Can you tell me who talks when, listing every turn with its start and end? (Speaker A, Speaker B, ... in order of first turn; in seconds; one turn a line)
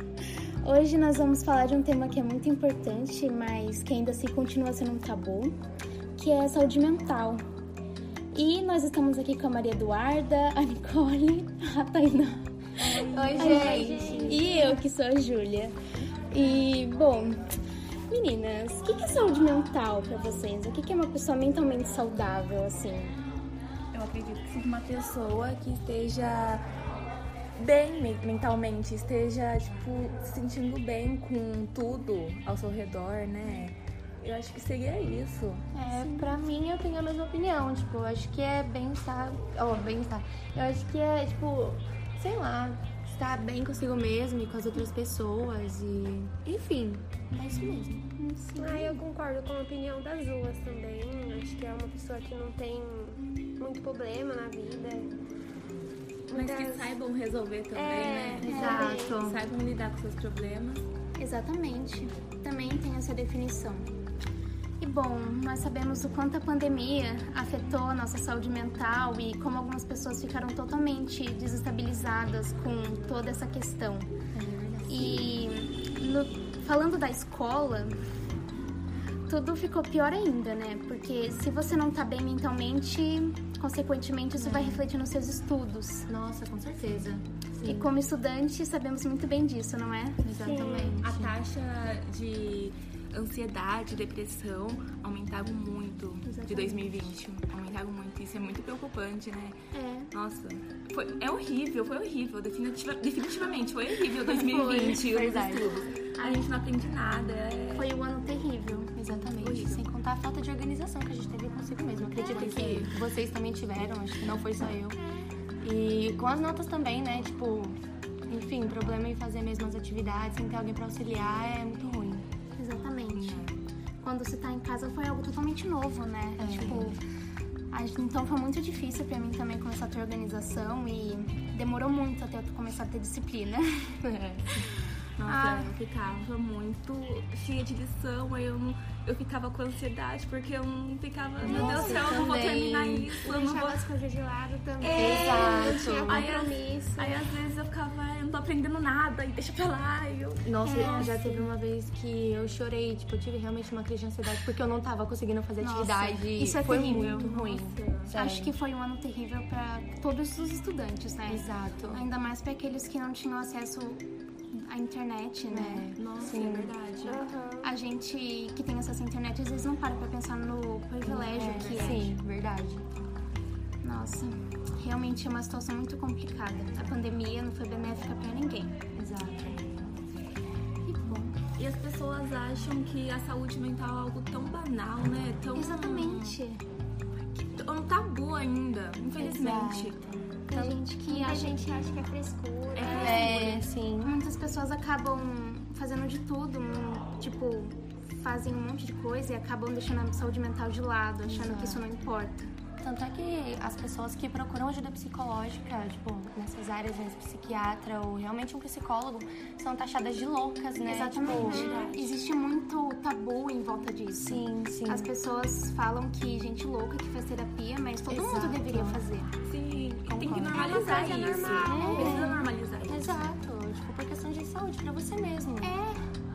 Speaker A: 0.6-5.5
Speaker A: 6.2-7.4
Speaker A: 8.3-12.5
Speaker B: 12.8-14.4
Speaker C: 12.8-14.8
Speaker A: 13.3-15.7
Speaker D: 13.7-14.7
Speaker A: 16.3-17.5
Speaker A: 18.1-23.2
Speaker B: 23.9-26.6
Speaker B: 27.6-35.7
Speaker C: 35.7-48.1
Speaker A: 35.8-36.3
Speaker A: 47.4-49.0
Speaker D: 48.6-55.1
Speaker D: 56.3-57.0
Speaker B: 56.3-60.9
Speaker D: 57.7-59.2
Speaker C: 58.4-59.4
Speaker A: 58.5-59.0
Speaker A: 61.2-63.9
Speaker A: 64.8-74.1
Speaker C: 74.3-75.4
Speaker A: 74.9-78.0
Speaker A: 79.3-86.1
Speaker C: 84.4-84.9
Speaker C: 86.1-87.9
Speaker A: 87.6-90.5
Speaker C: 90.2-91.3
Speaker D: 90.4-90.9
Speaker B: 90.9-99.5
Speaker A: 96.2-97.1
Speaker A: 99.7-100.1
Speaker B: 100.1-107.9
Speaker C: 104.3-105.7
Speaker A: 104.3-106.4
Speaker A: 107.7-109.0
Speaker C: 109.0-115.0
Speaker B: 109.4-109.9
Speaker B: 112.2-112.9
Speaker C: 115.6-117.8
Speaker C: 118.3-122.2
Speaker A: 122.6-123.5
Speaker B: 123.1-123.6
Speaker A: 124.0-127.0
Speaker C: 126.4-127.0
Speaker A: 127.7-134.0
Speaker C: 134.0-134.7
Speaker B: 135.2-143.9
Speaker A: 135.2-135.7
Speaker C: 141.4-143.1
Speaker A: 141.5-142.3
Speaker D: 141.5-142.2
Speaker D: 143.2-147.2
Speaker B: 144.8-150.9
Speaker C: 144.9-146.3
Speaker C: 150.4-158.5
Speaker A: 150.6-151.4
Speaker D: 150.7-151.2
Speaker A: 155.6-157.3
Speaker B: 156.9-158.1
Speaker A: 158.1-165.9
Speaker C: 161.3-162.0
Speaker C: 165.5-166.7
Speaker B: 165.9-167.3
Speaker D: 167.1-167.7
Speaker A: 167.6-172.1
Speaker C: 171.0-172.9
Speaker B: 171.2-172.1
Speaker A: 173.8-178.8
Speaker C: 178.9-179.9
Speaker A: 180.8-181.4
Speaker B: 181.6-186.4
Speaker A: 185.5-186.6
Speaker B: 187.3-190.0
Speaker A: 189.2-189.6
Speaker C: 189.3-190.7
Speaker A: 190.5-191.6
Speaker D: 191.1-193.4
Speaker B: 192.7-193.5
Speaker A: 192.8-202.5
Speaker C: 192.8-194.1
Speaker C: 201.2-201.8
Speaker C: 202.8-212.2
Speaker A: 210.8-219.3
Speaker D: 211.3-211.9
Speaker C: 214.1-215.1
Speaker C: 218.1-219.0
Speaker B: 219.4-223.2
Speaker C: 220.1-225.8
Speaker D: 220.4-222.4
Speaker A: 221.7-222.4
Speaker A: 225.6-226.0